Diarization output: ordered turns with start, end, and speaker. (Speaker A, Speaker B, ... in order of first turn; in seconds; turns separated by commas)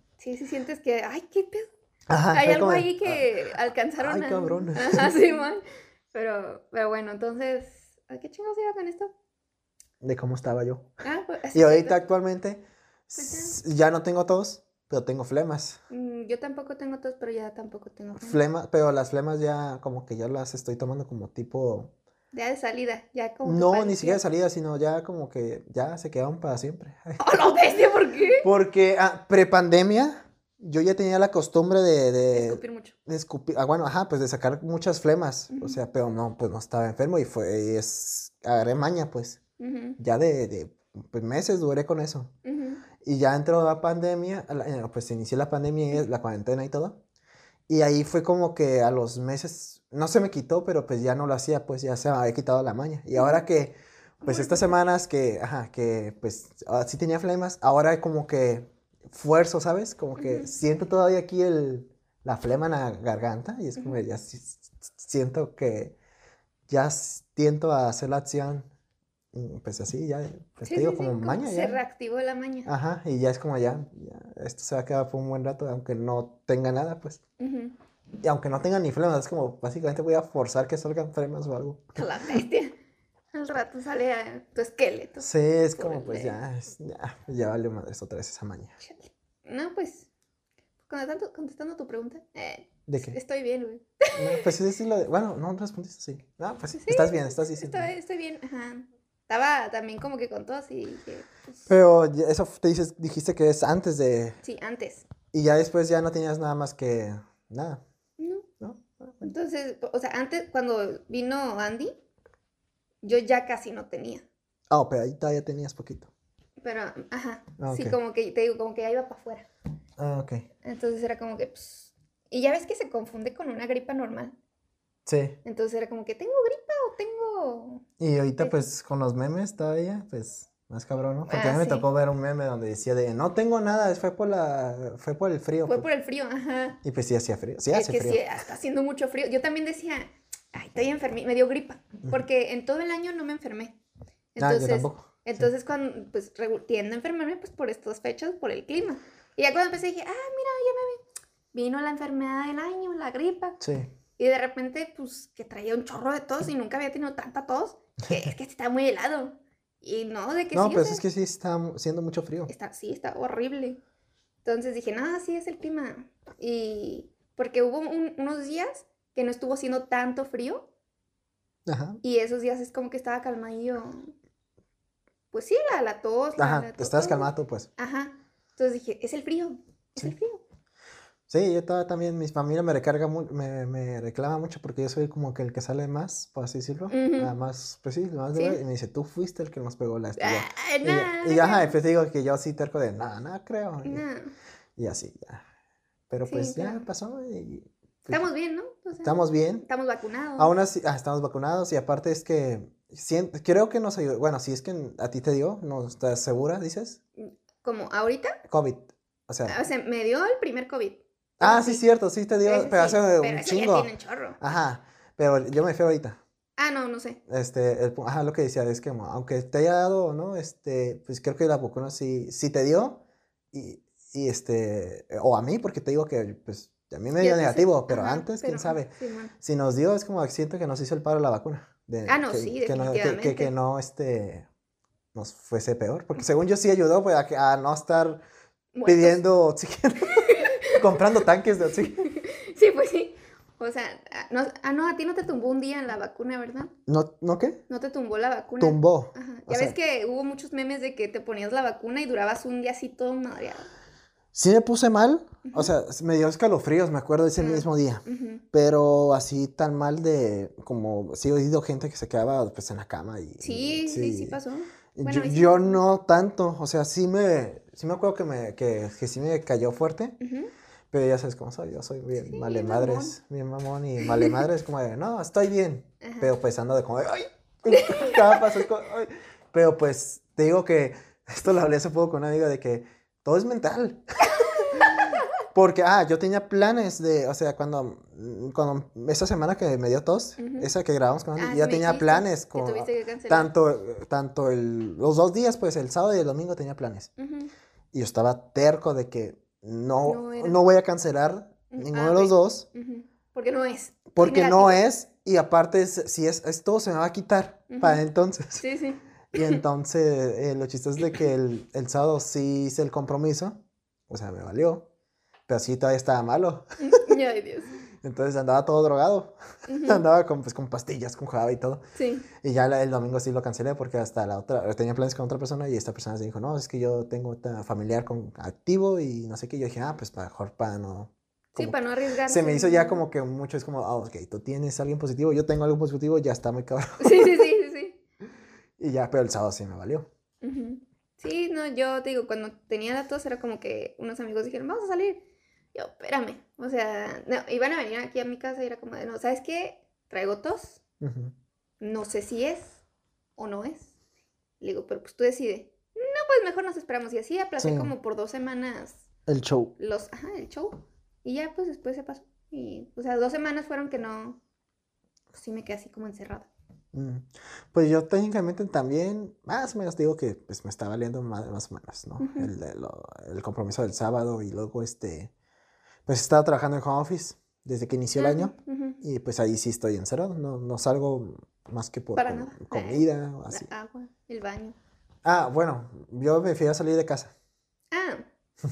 Speaker A: 0.2-1.7, Speaker B: 2.1-5.2, Speaker A: 2.3-9.1, Speaker B: 10.0-10.9, Speaker A: 11.0-12.0, Speaker B: 11.5-15.8, Speaker A: 13.2-13.6, Speaker A: 15.9-18.4, Speaker B: 18.2-21.9, Speaker A: 22.3-24.2, Speaker B: 23.4-27.6, Speaker A: 27.2-28.5, Speaker B: 28.4-39.4, Speaker A: 32.3-33.0, Speaker A: 35.5-35.8, Speaker A: 39.6-40.0, Speaker B: 40.0-42.3, Speaker A: 42.5-42.8, Speaker B: 43.0-47.0, Speaker B: 47.7-66.0, Speaker A: 53.1-53.4, Speaker A: 54.2-54.8, Speaker A: 60.2-60.5, Speaker A: 63.8-64.0, Speaker B: 66.7-68.7, Speaker B: 69.3-71.8, Speaker A: 70.7-72.7, Speaker B: 72.7-77.2, Speaker A: 77.4-77.7, Speaker B: 78.2-82.0, Speaker A: 82.0-82.8, Speaker A: 83.3-86.4, Speaker B: 85.2-88.8, Speaker A: 88.8-90.1, Speaker A: 90.9-94.5, Speaker B: 92.9-93.2, Speaker B: 94.1-97.9, Speaker A: 96.8-101.6, Speaker B: 101.7-104.4, Speaker A: 104.4-105.1, Speaker B: 105.3-107.8, Speaker A: 108.2-108.5, Speaker B: 108.6-109.3, Speaker A: 109.2-112.0, Speaker A: 113.0-114.2, Speaker B: 114.7-116.1, Speaker A: 116.6-119.5, Speaker B: 117.6-118.0, Speaker B: 120.0-120.5, Speaker A: 120.6-124.3, Speaker B: 125.1-125.4, Speaker A: 125.5-127.8, Speaker B: 128.0-135.9, Speaker A: 131.3-131.9, Speaker A: 135.7-136.8, Speaker B: 136.8-138.2, Speaker A: 137.7-143.8, Speaker A: 144.3-151.0, Speaker B: 144.4-145.5, Speaker A: 151.5-153.6, Speaker B: 153.6-153.9, Speaker A: 154.2-161.0, Speaker B: 160.5-162.5, Speaker A: 162.5-163.8, Speaker A: 164.4-170.7, Speaker B: 171.7-172.0, Speaker A: 172.0-174.1, Speaker A: 175.3-180.4, Speaker B: 176.4-177.7, Speaker B: 181.3-194.1, Speaker A: 186.9-187.3, Speaker A: 188.3-188.6, Speaker A: 190.2-191.8, Speaker A: 193.8-194.3, Speaker B: 194.8-195.4, Speaker B: 196.1-198.2, Speaker A: 196.3-196.8, Speaker A: 198.1-200.5, Speaker B: 199.0-199.7, Speaker B: 200.4-207.0, Speaker A: 207.2-208.4, Speaker B: 208.5-209.6, Speaker A: 209.5-211.8, Speaker B: 211.4-216.2, Speaker A: 212.4-214.4, Speaker A: 216.6-217.2, Speaker B: 217.3-234.5, Speaker A: 227.2-229.3, Speaker A: 232.1-233.5, Speaker B: 235.1-238.2, Speaker A: 238.7-239.2, Speaker B: 238.9-242.1, Speaker A: 240.1-241.0, Speaker A: 241.9-246.7, Speaker B: 246.9-247.6, Speaker A: 247.7-253.7, Speaker B: 248.6-249.8, Speaker B: 254.3-264.4, Speaker A: 255.4-255.7, Speaker A: 257.4-258.4, Speaker A: 263.4-265.8, Speaker B: 264.9-270.2, Speaker A: 270.2-270.5, Speaker B: 270.9-297.1, Speaker A: 272.1-273.2, Speaker A: 274.0-274.3, Speaker A: 276.0-276.3, Speaker A: 277.7-278.4, Speaker A: 284.4-285.1, Speaker A: 290.4-290.7, Speaker A: 291.4-293.5, Speaker A: 297.2-297.5, Speaker B: 297.9-302.7, Speaker A: 300.1-300.6, Speaker A: 301.7-304.8, Speaker B: 304.1-308.6, Speaker A: 307.7-308.0, Speaker A: 308.6-309.6, Speaker B: 309.3-314.9, Speaker B: 315.5-316.7, Speaker A: 316.8-317.7, Speaker B: 318.0-321.8, Speaker A: 319.7-320.0, Speaker A: 321.9-322.3, Speaker B: 322.4-337.5, Speaker A: 331.6-333.0, Speaker A: 337.0-338.0, Speaker B: 338.8-340.1, Speaker A: 340.4-345.2, Speaker A: 345.7-350.8, Speaker B: 351.0-351.3, Speaker A: 351.8-352.8, Speaker A: 353.4-353.9, Speaker A: 354.6-359.1, Speaker B: 357.6-357.9, Speaker B: 359.3-359.7, Speaker A: 359.8-364.4, Speaker A: 365.3-366.5, Speaker B: 366.9-375.3, Speaker A: 372.2-372.5, Speaker B: 376.1-383.7, Speaker A: 378.2-379.0, Speaker A: 382.2-384.8, Speaker B: 385.2-387.3, Speaker A: 387.9-388.3